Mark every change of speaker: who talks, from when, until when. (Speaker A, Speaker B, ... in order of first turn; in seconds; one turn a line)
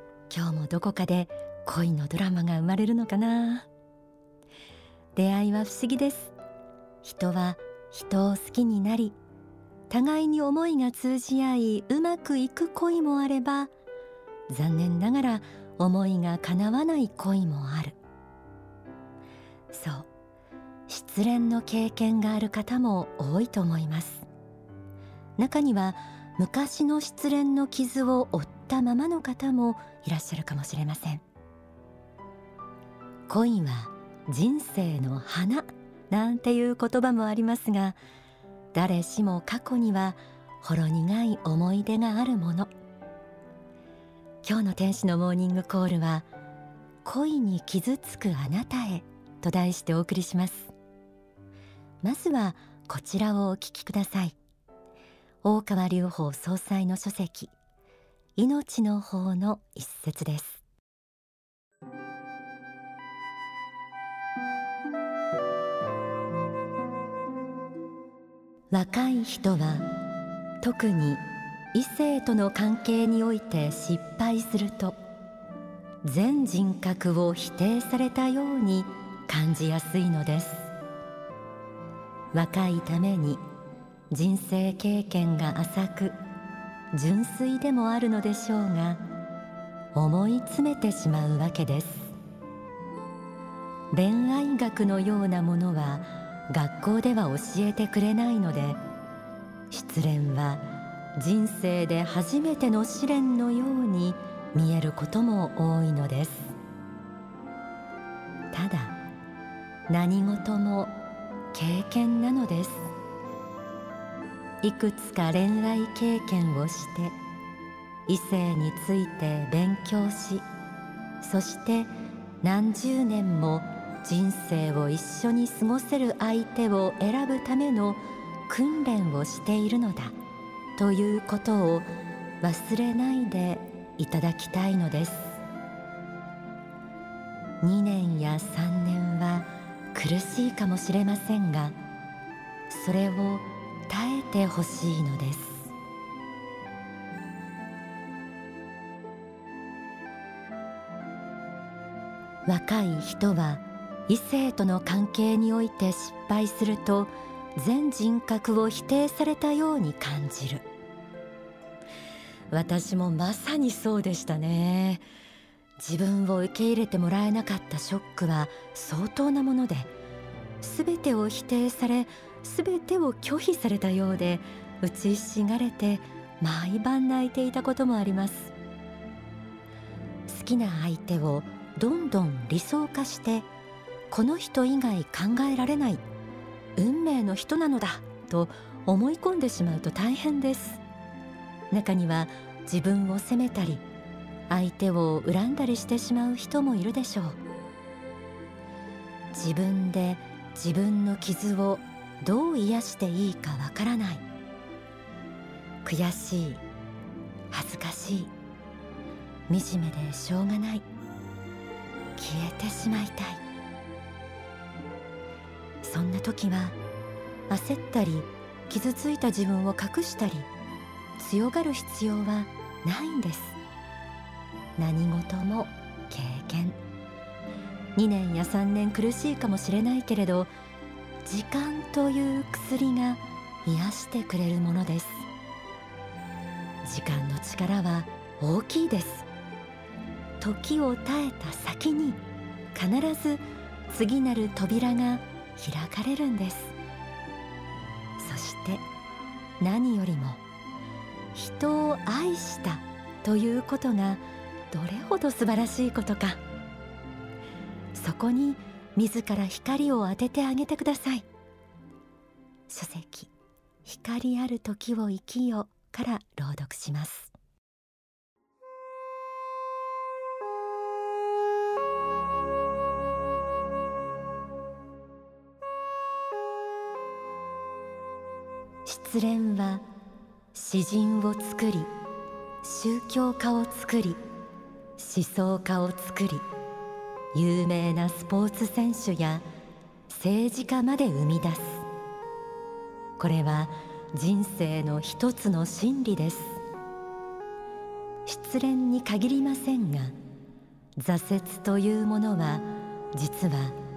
Speaker A: 0.3-3.7
Speaker A: 5.2-6.3
Speaker A: 7.0-9.2
Speaker A: 9.9-13.7
Speaker A: 14.5-18.0
Speaker A: 19.7-20.1
Speaker A: 20.9-24.3
Speaker A: 25.4-31.2
Speaker A: 33.3-38.0
Speaker A: 38.7-42.7
Speaker A: 44.4-46.3
Speaker A: 47.0-50.7
Speaker A: 52.0-54.4
Speaker A: 55.4-57.5
Speaker A: 58.4-60.6
Speaker A: 68.7-69.9
Speaker A: 70.6-75.0
Speaker A: 76.0-80.7
Speaker A: 82.3-83.4
Speaker A: 84.1-86.2
Speaker A: 86.9-89.0
Speaker A: 89.9-92.2
Speaker A: 93.9-98.8
Speaker A: 99.7-100.6
Speaker A: 101.2-106.6
Speaker A: 108.5-109.0
Speaker A: 109.9-111.0
Speaker A: 111.5-112.9
Speaker A: 114.6-117.2
Speaker A: 118.1-120.5
Speaker A: 121.2-121.9
Speaker A: 122.4-130.2
Speaker A: 130.8-131.9
Speaker A: 132.4-135.4
Speaker A: 137.6-141.8
Speaker A: 142.7-145.7
Speaker A: 152.4-160.7
Speaker A: 162.5-165.0
Speaker A: 165.8-169.9
Speaker A: 170.6-178.5
Speaker A: 180.3-183.5
Speaker A: 184.1-186.0
Speaker A: 186.8-190.8
Speaker A: 191.7-193.8
Speaker A: 194.5-197.4
Speaker A: 199.3-204.2
Speaker A: 205.8-206.6
Speaker A: 207.5-208.3
Speaker A: 209.5-210.9
Speaker A: 212.2-213.4
Speaker A: 215.8-216.8
Speaker A: 217.5-220.5
Speaker A: 221.2-223.6
Speaker A: 224.8-226.8
Speaker A: 228.0-230.5
Speaker A: 231.2-235.3
Speaker A: 236.8-239.3
Speaker A: 240.4-242.2
Speaker A: 242.7-246.8
Speaker A: 248.2-248.8
Speaker A: 249.6-250.4
Speaker A: 251.3-256.4
Speaker A: 257.9-261.3
Speaker A: 262.7-263.3
Speaker A: 263.9-267.3
Speaker A: 278.9-279.9
Speaker A: 280.5-281.9
Speaker A: 282.6-284.2
Speaker A: 285.0-286.5
Speaker A: 287.3-289.4
Speaker A: 290.1-291.9
Speaker A: 293.2-296.6
Speaker A: 298.3-300.2
Speaker A: 301.0-303.8